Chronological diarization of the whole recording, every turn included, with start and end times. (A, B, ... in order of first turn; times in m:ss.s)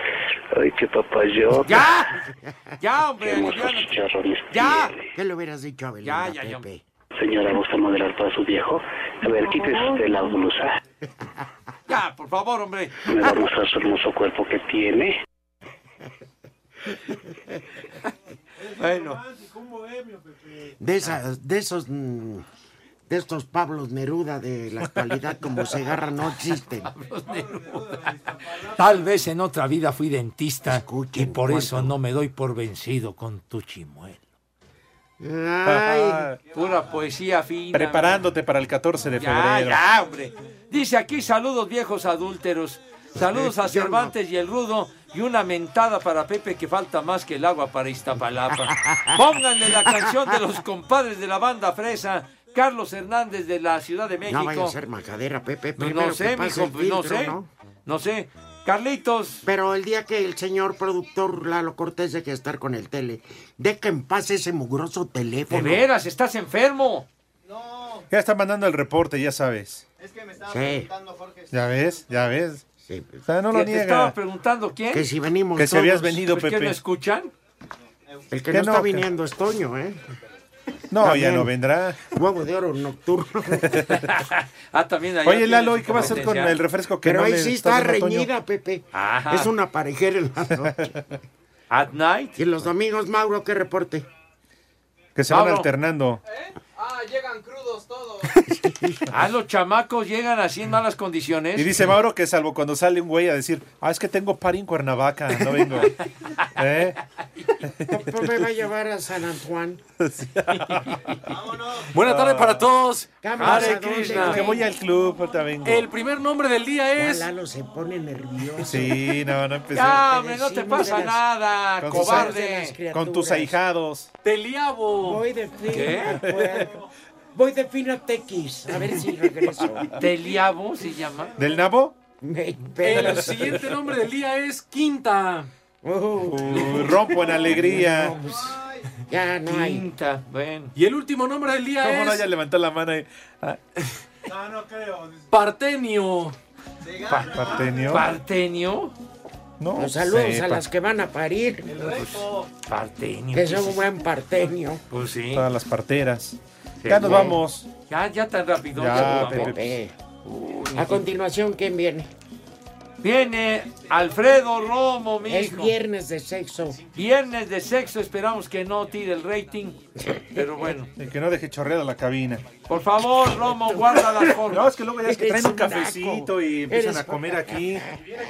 0:00.5-0:01.9 A
0:01.6-0:02.2 B
0:02.3-0:02.6 C
0:02.8-0:04.9 B
0:03.2-0:05.0 A
0:05.1-0:06.8 C
0:06.0-0:06.7 B
0:07.2-0:10.8 A
0:11.9-0:13.0 B
0:13.0-0:15.2 A
0:18.8-0:19.2 B
0:20.8-0:22.4 C
0:23.1-0:26.9 C
0:26.8-0:34.2 B
0:30.6-0:31.9 C
0:35.2-0:36.3 C
0:35.7-0:36.4 D
0:36.5-0:38.2 B
0:37.7-0:39.8 D
0:39.2-0:54.7 B
0:43.2-0:44.1 C
0:48.5-0:50.4 C
0:54.3-0:57.5 C
0:55.8-0:59.5 B
0:59.5-1:05.9 C
1:05.5-1:07.1 B
1:08.1-1:09.8 D
1:10.5-1:10.9 C
1:11.5-1:12.6 D
1:12.8-1:13.2 C
1:13.3-1:14.2 D
1:13.5-1:15.1 B
1:14.9-1:16.2 C
1:15.6-1:16.8 D
1:16.3-1:17.3 B
1:18.3-1:20.0 C
1:18.5-1:19.1 D
1:20.9-1:22.0 D
1:21.0-1:21.5 C
1:22.1-1:23.8 C
1:23.9-1:26.6 B
1:25.2-1:28.3 D
1:27.0-1:31.0 C
1:28.9-1:29.5 B
1:31.7-1:32.4 B
1:32.4-1:34.1 C
1:35.2-1:36.2 D
1:35.3-1:35.7 B
1:38.5-1:39.0 C
1:39.1-1:42.0 B
1:41.6-1:46.0 D
1:46.6-1:47.0 D
1:47.9-1:49.8 C
1:50.0-1:51.0 D
1:51.9-1:53.1 E
1:52.0-1:52.7 D
1:53.2-1:54.6 C
1:53.4-1:54.6 B
1:53.5-1:55.9 D
1:54.0-1:54.3 E
1:55.6-1:57.3 E
1:57.0-1:59.1 C
1:58.6-2:00.0 D
1:59.7-2:02.8 B
1:59.8-2:01.3 C
2:01.8-2:02.3 D
2:01.8-2:03.6 C
2:02.9-2:04.1 D
2:04.2-2:05.2 E
2:05.0-2:06.8 C
2:05.7-2:06.2 B
2:07.3-2:09.9 C
2:10.0-2:11.4 B
2:11.4-2:12.0 D
2:12.2-2:13.6 C
2:12.8-2:15.5 E
2:15.8-2:19.9 C
2:16.2-2:18.2 D
2:19.5-2:20.7 B
2:20.8-2:22.3 E
2:21.8-2:23.6 D
2:25.3-2:26.4 E
2:27.0-2:28.9 B
2:27.3-2:28.0 D
2:29.6-2:30.6 D
2:29.8-2:31.9 C
2:31.8-2:33.9 B
2:33.3-2:34.8 C
2:34.9-2:35.5 B
2:35.3-2:37.7 D
2:36.8-2:41.1 B
2:37.0-2:37.4 C
2:38.8-2:39.6 D
2:39.0-2:39.9 C
2:40.8-2:42.1 C
2:43.0-2:45.8 B
2:45.2-2:46.8 C
2:47.0-2:49.8 B
2:50.3-2:50.9 B
2:51.0-2:52.5 D
2:52.7-2:54.6 B
2:54.5-2:57.9 D
2:55.0-2:58.0 C